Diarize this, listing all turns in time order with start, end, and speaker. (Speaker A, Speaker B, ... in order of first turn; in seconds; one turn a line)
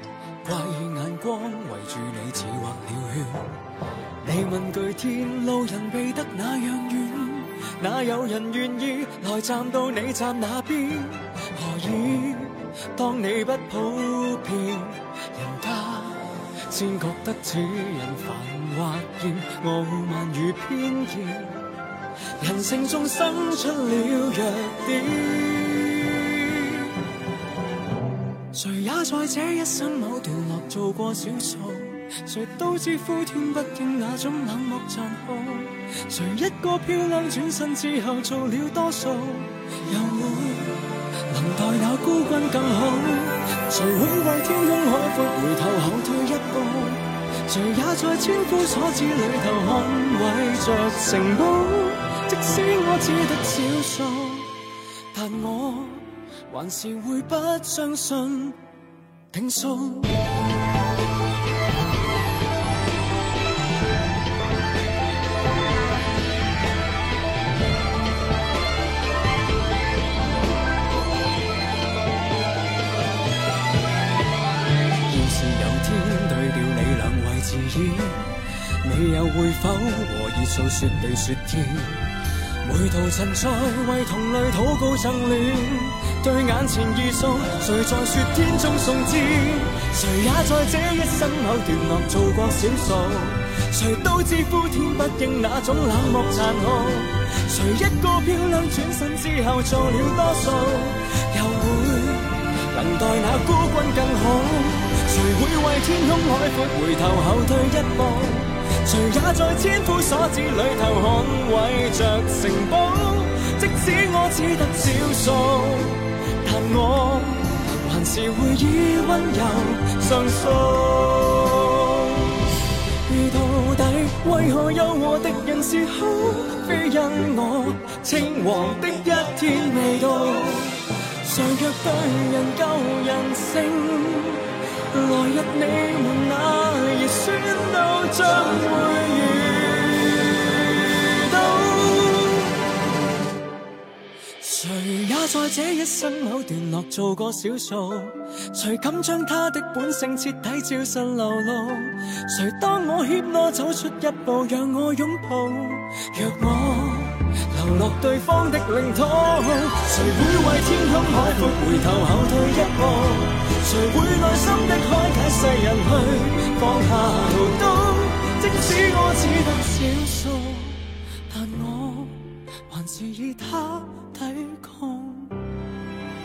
Speaker A: 0.4-3.5
Speaker A: 4.2-21.6
Speaker A: 22.4-26.8
Speaker A: 28.5-54.5
Speaker A: 55.1-58.6
Speaker A: 59.3-60.2
Speaker A: 75.0-82.0
Speaker A: 82.6-122.3
Speaker A: 123.1-142.5
Speaker A: 144.4-175.4